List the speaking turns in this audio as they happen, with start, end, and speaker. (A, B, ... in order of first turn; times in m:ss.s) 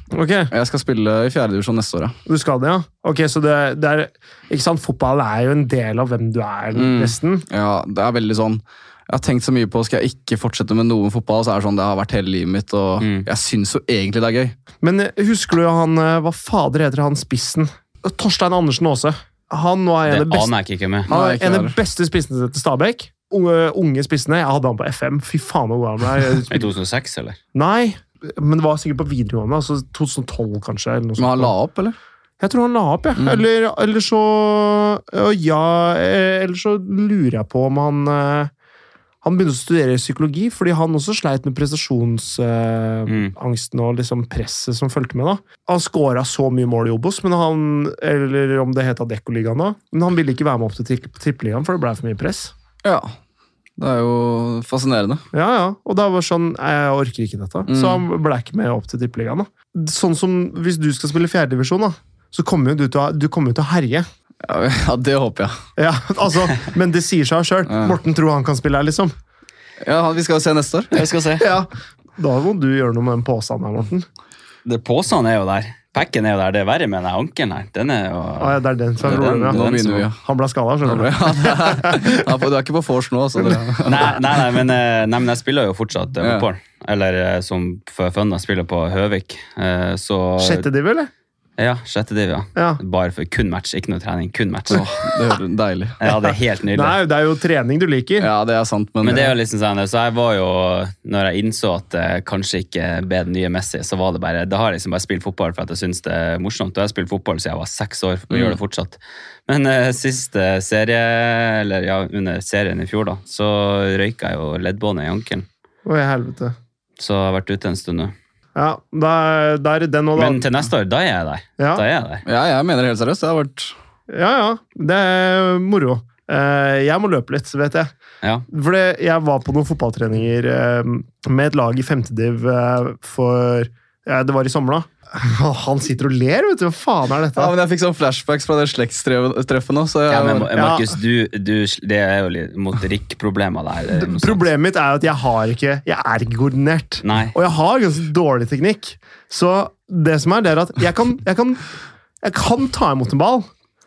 0:00.1-0:00.5 A
0:00.5-0:02.2 B
0:02.2-0:07.4 A
0:06.7-0:14.5 B
0:13.0-0:13.2 C
0:14.8-0:20.5 A
0:20.1-0:21.1 C
0:21.1-0:21.8 B
0:21.1-0:26.7 A
0:26.5-0:27.4 C
0:27.5-0:31.5 A
0:31.2-0:32.0 B
0:32.4-0:38.5 A
0:33.2-0:33.4 B
0:39.2-0:52.5 A
0:52.8-0:53.2 B
0:53.8-0:55.2 B
0:55.3-1:04.1 A
0:57.7-0:58.0 B
1:04.4-1:05.6 B
1:05.8-1:09.1 A
1:07.7-1:08.0 B
1:09.8-1:10.9 B
1:10.9-1:11.5 C
1:11.4-1:14.0 A
1:14.6-1:20.0 C
1:18.4-1:19.6 A
1:19.0-1:20.2 B
1:20.2-1:22.3 A
1:20.8-1:24.4 B
1:23.8-1:30.6 C
1:26.2-1:26.4 B
1:30.4-1:31.1 A
1:31.6-1:34.9 C
1:34.7-1:36.0 B
1:36.0-1:37.0 C
1:36.7-1:38.3 A
1:38.2-1:39.3 B
1:39.0-1:55.4 C
1:48.3-1:48.6 B
1:55.8-1:56.5 A
1:57.0-1:58.1 C
1:58.6-2:00.4 A
2:00.2-2:02.2 C
2:02.2-2:03.7 B
2:04.1-2:07.9 A
2:08.5-2:17.5 A
2:17.3-2:20.5 B
2:20.1-2:24.4 C
2:20.6-2:20.9 A
2:23.9-2:31.7 A
2:27.0-2:27.3 C
2:32.2-2:33.5 A